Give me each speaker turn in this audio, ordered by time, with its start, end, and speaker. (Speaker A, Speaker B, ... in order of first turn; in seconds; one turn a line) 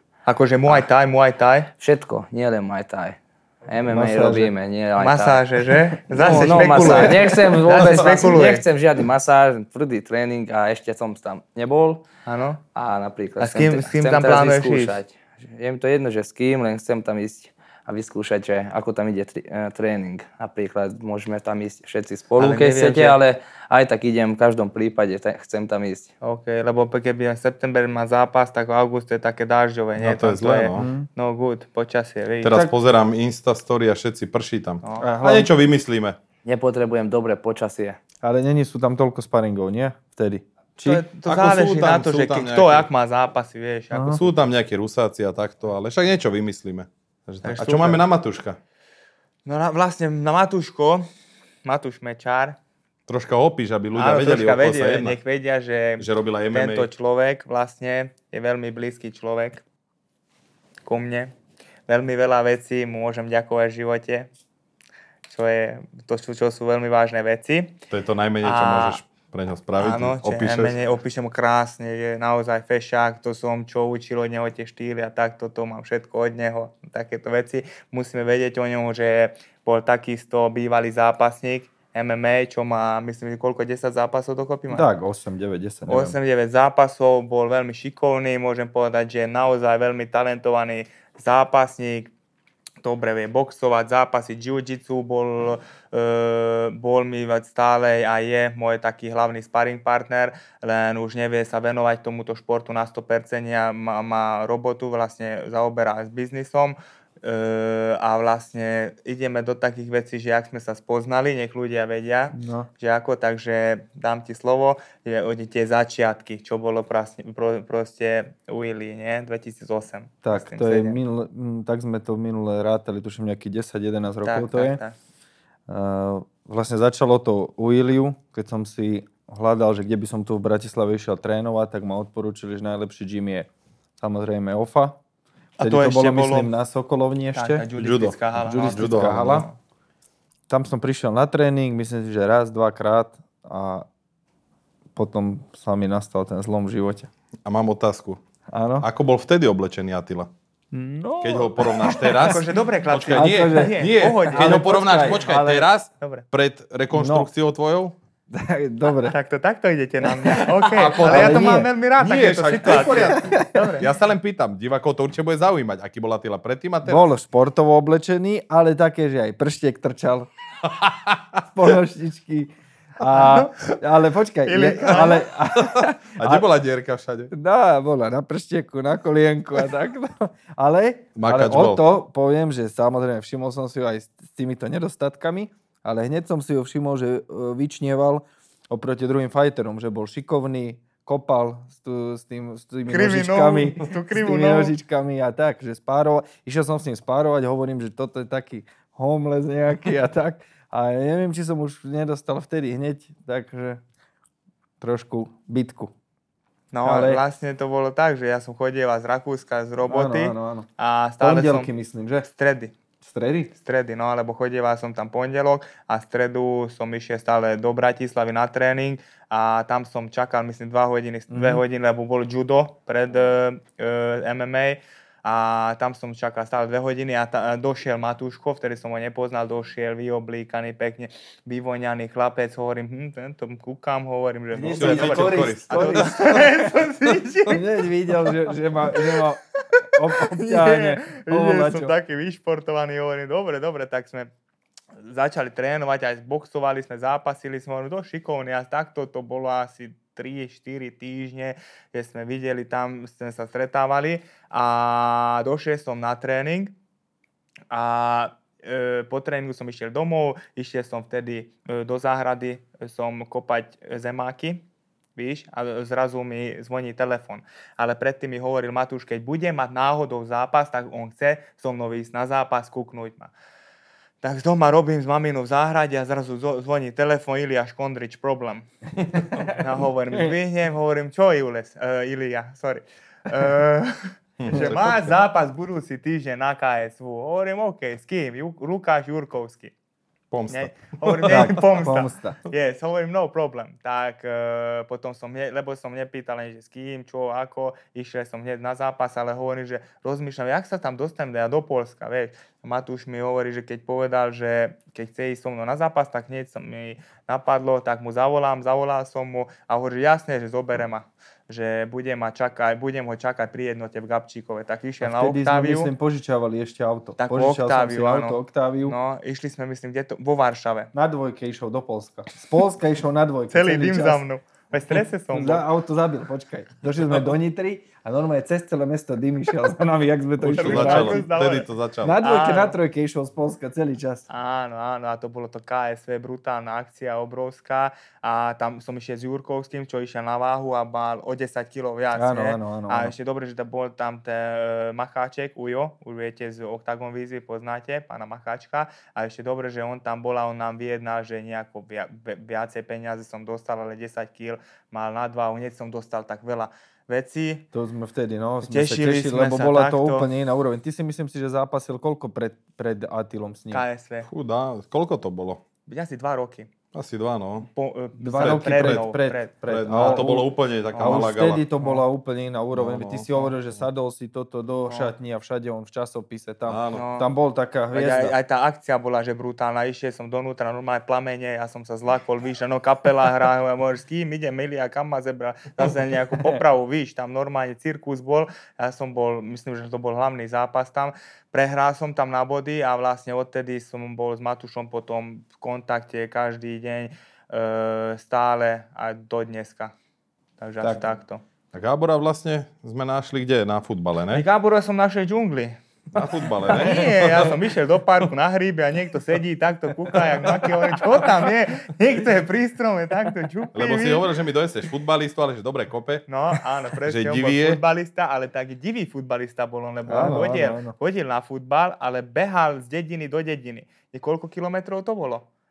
Speaker A: 0.2-1.7
Speaker B: 1.8-5.4
Speaker C: 3.9-4.5
Speaker A: 5.0-8.6
Speaker B: 6.1-12.0
Speaker A: 12.2-12.6
Speaker B: 12.7-26.1
Speaker A: 13.4-15.0
Speaker A: 22.4-23.2
Speaker A: 26.2-32.7
Speaker D: 30.0-30.9
Speaker C: 30.7-31.1
Speaker D: 32.4-36.2
Speaker A: 34.8-35.1
Speaker C: 35.0-35.5
Speaker B: 36.4-38.0
Speaker C: 38.2-41.0
Speaker A: 40.8-44.2
Speaker D: 41.2-42.9
Speaker C: 43.9-44.2
Speaker D: 44.1-48.6
Speaker A: 47.4-48.0
Speaker A: 49.5-51.0
Speaker A: 51.6-52.5
Speaker D: 53.1-55.2
Speaker A: 53.9-59.6
Speaker D: 56.0-56.9
Speaker A: 60.9-61.3
Speaker A: 61.9-64.3
Speaker A: 65.3-67.7
Speaker D: 67.9-70.7
Speaker A: 68.4-69.0
Speaker A: 69.8-84.8
Speaker C: 84.7-86.2
Speaker A: 85.9-92.1
Speaker A: 92.8-121.0
Speaker C: 112.3-112.7
Speaker C: 120.2-124.8
Speaker A: 124.2-124.9
Speaker C: 125.7-133.5
Speaker C: 134.0-134.9
Speaker A: 135.6-136.5
Speaker C: 135.6-137.7
Speaker A: 137.3-139.5
Speaker D: 137.8-139.5
Speaker C: 138.4-139.5
Speaker C: 140.5-143.8
Speaker C: 144.9-147.1
Speaker D: 147.4-148.2
Speaker C: 148.5-148.9
Speaker D: 148.8-150.3
Speaker C: 150.7-152.3
Speaker D: 151.2-157.9
Speaker A: 152.0-156.2
Speaker C: 153.1-155.7
Speaker C: 156.9-157.3
Speaker C: 158.3-159.2
Speaker A: 159.1-163.9
Speaker C: 160.2-161.7
Speaker D: 160.7-167.0
Speaker C: 162.8-163.7
Speaker C: 166.8-170.3
Speaker D: 170.8-171.2
Speaker C: 171.4-176.4
Speaker A: 173.1-173.5
Speaker A: 174.4-175.3
Speaker D: 175.6-177.3
Speaker C: 177.3-203.8
Speaker D: 181.2-181.8
Speaker A: 192.9-194.7
Speaker C: 204.8-205.9
Speaker A: 206.7-211.7
Speaker C: 206.8-207.2
Speaker C: 209.9-210.7
Speaker C: 211.2-212.3
Speaker A: 212.2-212.8
Speaker C: 213.0-213.5
Speaker A: 213.6-237.6
Speaker C: 221.3-221.6
Speaker C: 234.5-236.7
Speaker D: 234.7-236.2
Speaker C: 237.5-241.9
Speaker A: 238.9-239.3
Speaker A: 240.2-244.3
Speaker A: 245.0-256.7
Speaker A: 257.7-264.6
Speaker A: 265.1-273.3
Speaker A: 274.2-278.6
Speaker A: 279.5-289.7
Speaker D: 284.4-285.1
Speaker D: 290.3-291.6
Speaker A: 290.5-315.9
Speaker C: 291.2-292.4
Speaker C: 315.0-319.0
Speaker A: 317.2-320.9
Speaker C: 320.9-324.2
Speaker A: 323.5-325.6
Speaker C: 325.3-331.3
Speaker D: 330.4-332.2
Speaker A: 330.5-331.7
Speaker C: 332.0-334.2
Speaker A: 332.2-332.8
Speaker A: 334.3-357.6
Speaker C: 342.1-343.1
Speaker C: 357.7-363.8
Speaker A: 358.6-360.3
Speaker A: 363.7-364.3
Speaker D: 364.2-365.6
Speaker A: 365.9-366.7
Speaker D: 366.9-367.7
Speaker A: 367.7-370.4
Speaker C: 368.2-378.3
Speaker D: 368.3-369.1
Speaker D: 369.7-371.6
Speaker A: 370.9-372.0
Speaker D: 372.7-373.8
Speaker D: 376.7-377.1
Speaker A: 376.9-377.3
Speaker A: 377.9-399.9
Speaker A: 400.6-401.4
Speaker D: 401.7-404.4
Speaker A: 404.3-405.8
Speaker D: 406.1-407.6
Speaker A: 406.6-414.3
Speaker D: 413.7-416.3
Speaker A: 416.3-425.4
Speaker D: 417.0-417.8
Speaker C: 420.1-420.9